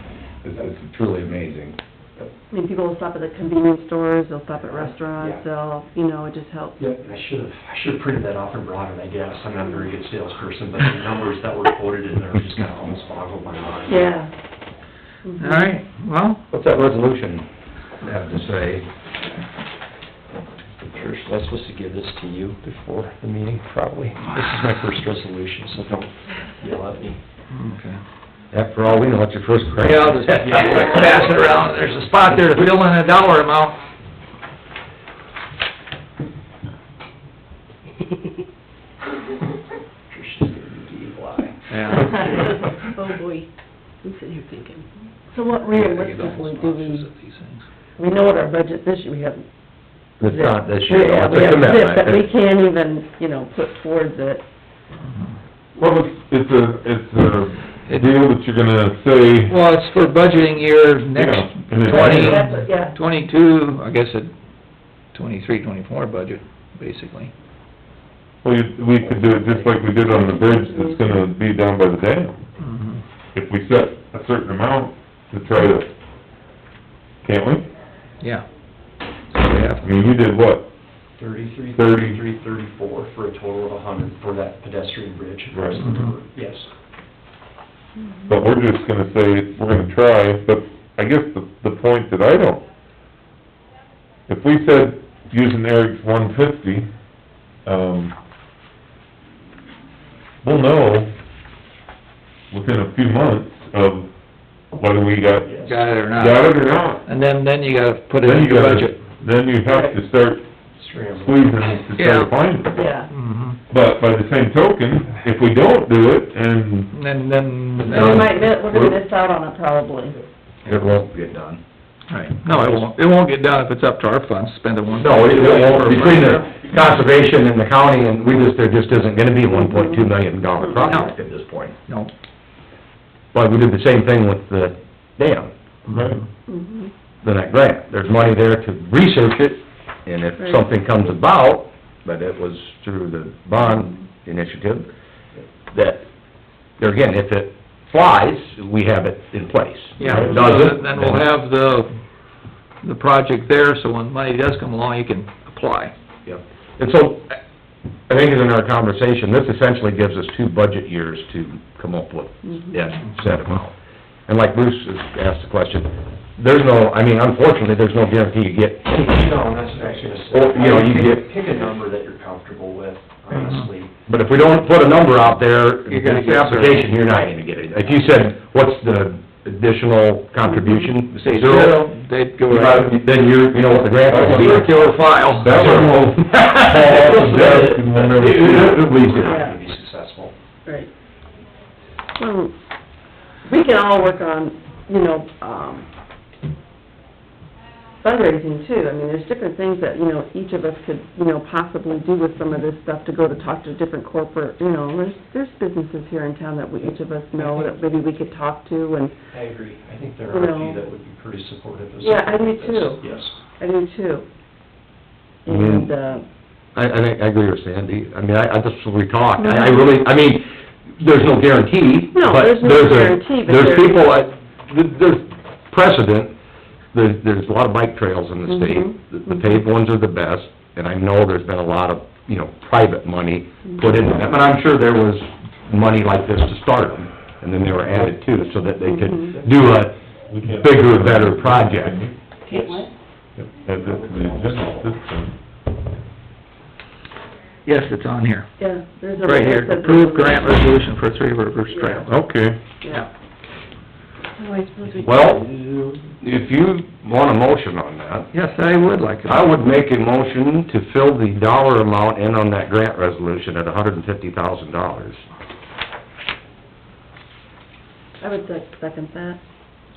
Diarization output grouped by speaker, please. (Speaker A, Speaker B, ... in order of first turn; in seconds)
Speaker A: 0.4-1.8, 16.5-17.5, 18.0-18.9, 28.5-31.0, 50.2-52.3, 117.8-119.0, 120.7-121.6, 122.5-122.9, 125.0-131.8, 133.3-135.5, 137.2-144.9, 145.7-146.1, 146.8-151.3, 156.2-157.4, 158.1-163.7, 164.3-169.4, 170.3-171.3, 174.1-181.9, 182.5-184.9, 185.5-189.4, 215.5-215.9, 216.8-226.3, 226.9-242.0, 255.0-255.5, 256.2-258.3, 259.2-265.2
Speaker B: 2.5-6.8, 13.9-14.3, 15.2-15.7, 45.3-47.1, 48.0-49.5, 50.2-54.4, 61.9-63.0, 70.0-71.2, 109.7-110.0, 112.7-113.1, 117.8-120.2, 129.5-130.0, 136.5-136.9, 140.4-140.7, 180.4-180.9, 189.3-189.6, 192.2-192.6, 193.5-195.9, 198.0-209.1, 210.3-210.8, 212.0-213.0, 213.6-214.2, 215.4-216.2, 219.4-219.9, 222.1-224.1, 228.5-229.5, 238.8-239.3, 242.5-242.9, 248.6-250.6, 251.7-252.1, 268.2-269.4
Speaker C: 4.6-5.4, 6.8-14.1, 20.8-27.2, 30.3-31.3, 40.1-42.6, 81.2-86.7, 105.4-105.8, 110.8-111.6, 168.9-173.9, 186.9-190.3, 207.4-207.8, 209.3-213.3, 242.5-242.9, 243.8-244.8
Speaker D: 15.4-16.4, 27.5-28.0, 29.8-33.8, 41.7-42.4, 45.6-47.6, 57.9-58.1, 59.5-64.3, 65.1-67.3, 72.6-73.0, 78.2-78.5, 79.3-80.0, 105.7-106.5, 107.1-109.0, 112.0-112.3, 113.1-113.6, 116.9-118.3, 122.1-126.5, 130.8-131.1, 150.0-152.0, 152.8-155.9, 173.3-173.7, 175.9-176.9, 181.1-182.9, 183.9-185.9, 247.7-248.5, 249.2-252.1, 258.3-259.6
Speaker E: 42.1-43.5, 44.0-44.9, 254.4-255.3
Speaker F: 55.8-59.5, 61.1-62.5, 68.4-72.5, 73.3-75.9, 77.2-77.7, 79.8-80.7, 81.8-82.2, 85.5-85.9, 88.3-92.7, 94.3-96.9, 97.7-98.2, 100.4-101.1, 102.5-104.1, 104.7-107.0, 108.2-110.5, 111.2-112.8, 113.7-116.9, 135.9-136.2, 184.1-184.6, 185.4-188.8, 240.3-242.2, 243.4-245.4, 252.1-252.6